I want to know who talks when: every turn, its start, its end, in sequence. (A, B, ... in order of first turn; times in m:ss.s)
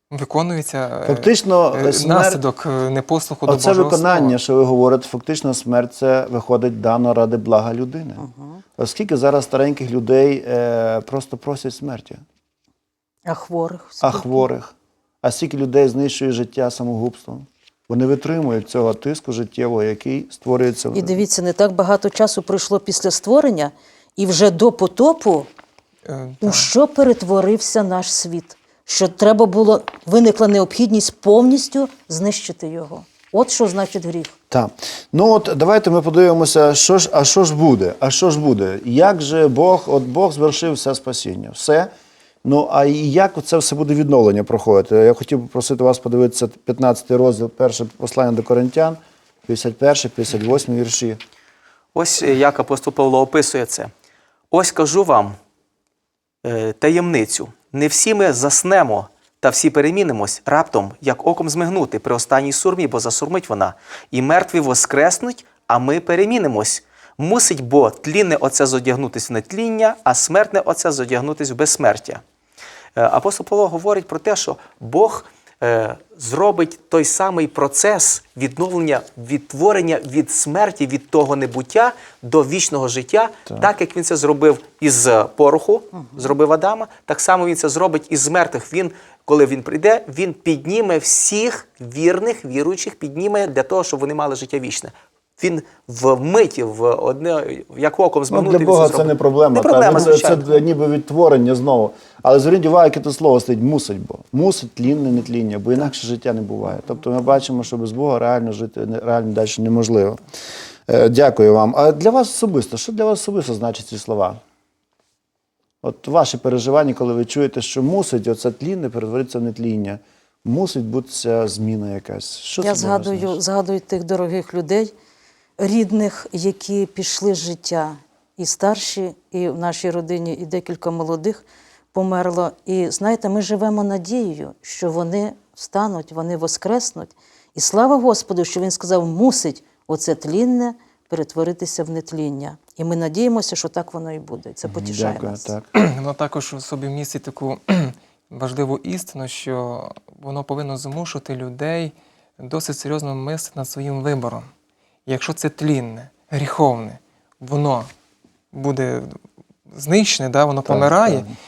0:00.1-0:04.4 A
0:01.0-0:02.4 B
0:03.5-0:08.2 B
0:08.2-0:08.6 C
0:08.8-0:12.2 B
0:13.3-0:14.4 C
0:14.0-0:21.2 B
0:20.9-0:25.5 C
0:26.0-0:26.7 A
0:26.4-0:34.4 C
0:34.5-0:41.9 B
0:42.4-0:51.2 B
0:51.9-0:53.9 D
0:54.5-0:55.4 D
0:56.4-1:12.2 D
1:13.0-1:40.4 D
1:38.3-1:50.2 B
1:50.9-1:54.4 B
1:55.8-2:03.4 B
2:02.6-2:04.9 C
2:05.6-2:25.5 C
2:24.6-2:25.7 B
2:25.8-2:34.5 A
2:35.1-2:37.9 A
2:38.5-2:39.2 A
2:39.7-2:41.3 A
2:40.7-2:41.3 B